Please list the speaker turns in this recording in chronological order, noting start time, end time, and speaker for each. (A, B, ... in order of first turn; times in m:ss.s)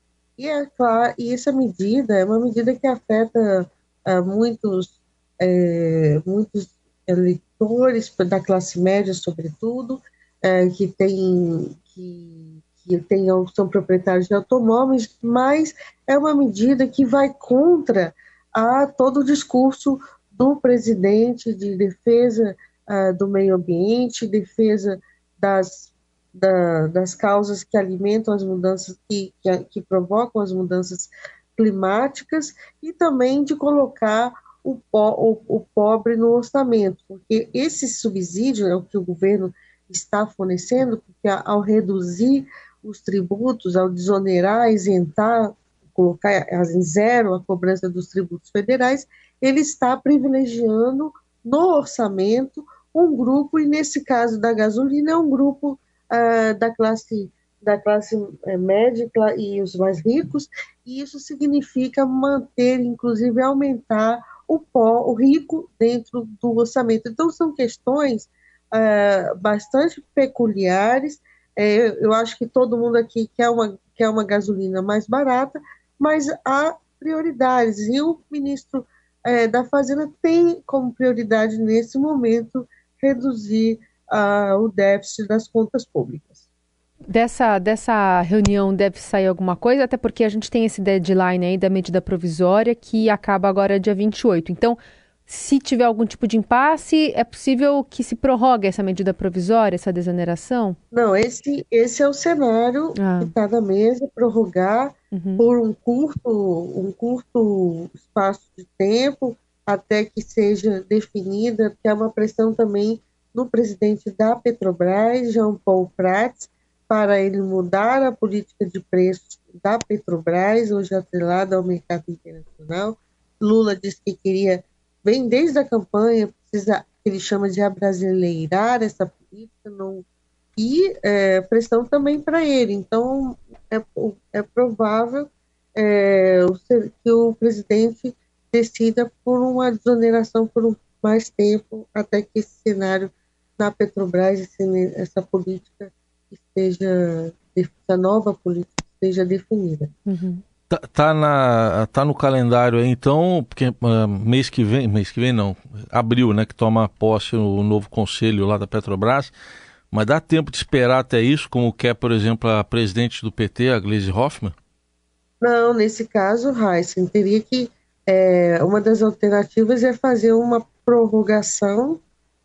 0:00.4-1:26.4 A
1:27.1-1:40.8 B
1:40.9-2:10.0 A
1:43.0-1:43.3 B
1:45.1-1:45.4 B
2:10.6-2:29.9 A
2:30.1-2:30.4 B
2:30.7-2:39.3 C
2:39.9-2:44.5 C
2:45.4-2:52.0 A